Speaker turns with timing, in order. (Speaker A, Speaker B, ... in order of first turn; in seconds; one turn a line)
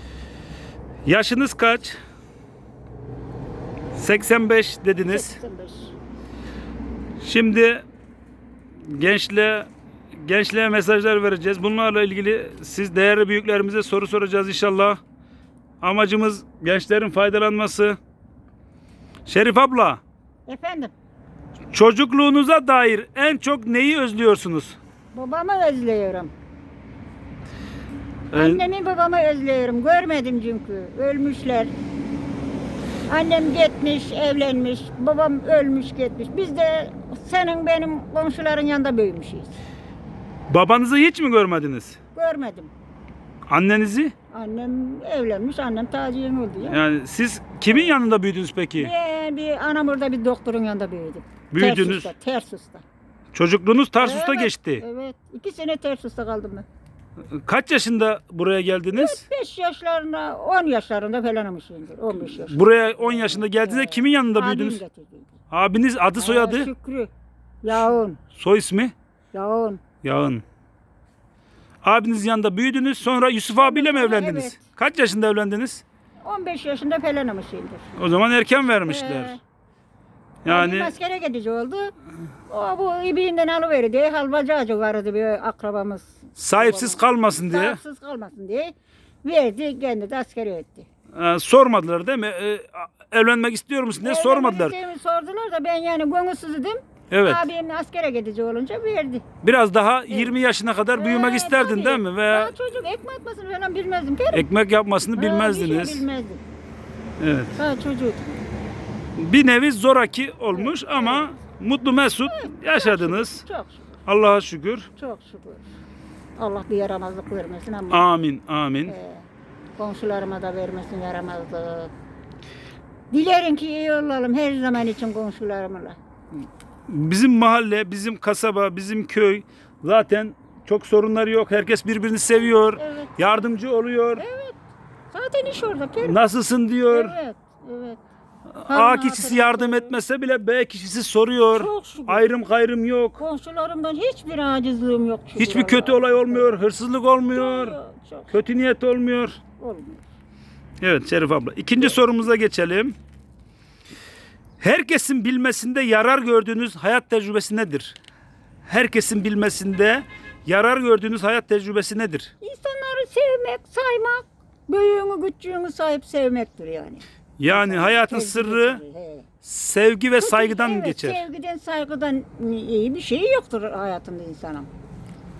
Speaker A: 1.0-1.9
Speaker A: 3.9-5.3
Speaker B: 5.0-5.9
Speaker A: 7.2-7.8
Speaker A: 8.8-15.0
Speaker A: 15.8-18.0
Speaker A: 19.2-20.0
Speaker B: 20.5-20.9
Speaker A: 21.7-24.8
Speaker B: 25.1-26.3
Speaker A: 28.3-28.6
Speaker B: 28.3-31.7
Speaker B: 33.1-39.5
Speaker A: 40.5-42.0
Speaker B: 42.1-42.7
Speaker A: 43.5-44.1
Speaker B: 44.3-46.8
Speaker A: 46.6-48.9
Speaker B: 48.8-52.8
Speaker A: 51.5-52.1
Speaker A: 53.3-54.8
Speaker B: 54.0-56.6
Speaker A: 57.3-59.2
Speaker B: 58.9-65.4
Speaker A: 62.2-64.8
Speaker A: 65.5-66.7
Speaker B: 66.2-67.1
Speaker B: 67.6-68.2
Speaker A: 68.3-68.9
Speaker B: 69.3-69.8
Speaker A: 70.0-70.4
Speaker A: 71.8-75.8
Speaker B: 73.5-74.6
Speaker B: 76.2-77.9
Speaker A: 78.0-79.4
Speaker B: 78.8-79.4
Speaker A: 80.4-80.9
Speaker B: 80.5-81.9
Speaker B: 82.5-90.9
Speaker A: 86.4-87.8
Speaker A: 91.1-94.8
Speaker B: 94.0-99.2
Speaker A: 97.1-97.5
Speaker A: 99.4-102.5
Speaker B: 100.1-100.3
Speaker B: 100.9-104.5
Speaker A: 104.3-106.0
Speaker B: 105.2-106.4
Speaker A: 107.2-107.6
Speaker B: 107.6-108.4
Speaker A: 109.2-113.4
Speaker B: 110.5-111.3
Speaker B: 112.2-114.0
Speaker A: 114.1-114.9
Speaker B: 115.0-115.7
Speaker B: 116.4-118.0
Speaker A: 117.9-118.9
Speaker B: 118.8-121.9
Speaker B: 123.1-126.0
Speaker A: 126.9-134.2
Speaker B: 132.3-133.1
Speaker B: 134.2-134.6
Speaker B: 135.1-136.2
Speaker A: 136.0-137.1
Speaker B: 136.9-138.0
Speaker A: 138.5-143.2
Speaker B: 138.7-139.9
Speaker B: 141.5-142.3
Speaker B: 143.2-146.6
Speaker A: 145.4-147.8
Speaker B: 147.3-148.4
Speaker A: 148.3-149.4
Speaker B: 149.6-150.1
Speaker A: 150.8-152.9
Speaker A: 154.6-158.0
Speaker A: 158.6-162.3
Speaker B: 162.4-169.3
Speaker A: 167.4-168.8
Speaker A: 169.4-171.2
Speaker B: 170.2-174.7